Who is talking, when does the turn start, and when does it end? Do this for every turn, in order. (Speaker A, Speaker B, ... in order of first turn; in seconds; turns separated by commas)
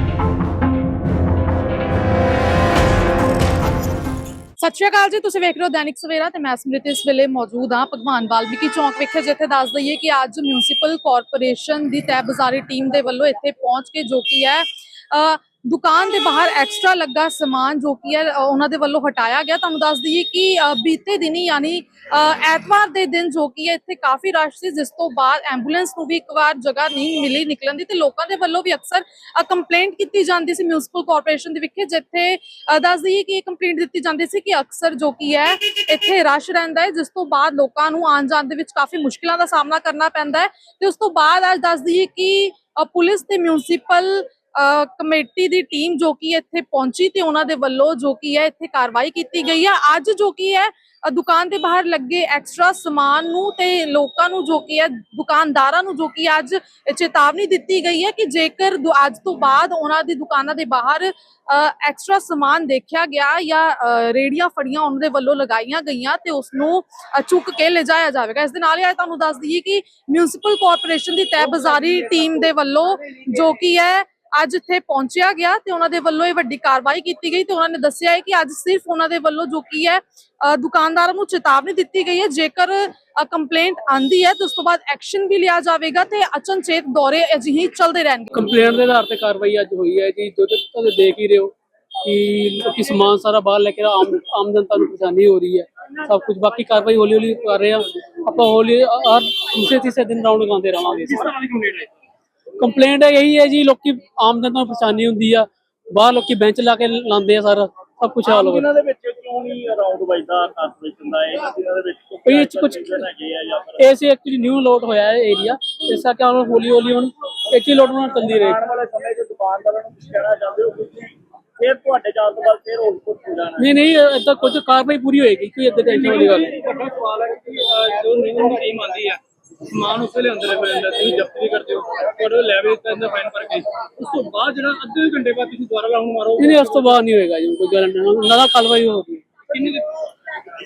Speaker A: 4.6-88.3, Speaker B: 88.3-101.2, Speaker C: 101.1-101.9, Speaker B: 102.6-108.7, Speaker D: 108.2-113.8, Speaker B: 112.2-113.1, Speaker B: 113.8-118.6, Speaker D: 118.4-123.6, Speaker B: 123.6-126.5, Speaker C: 125.9-136.8, Speaker B: 136.4-139.2, Speaker C: 139.5-140.0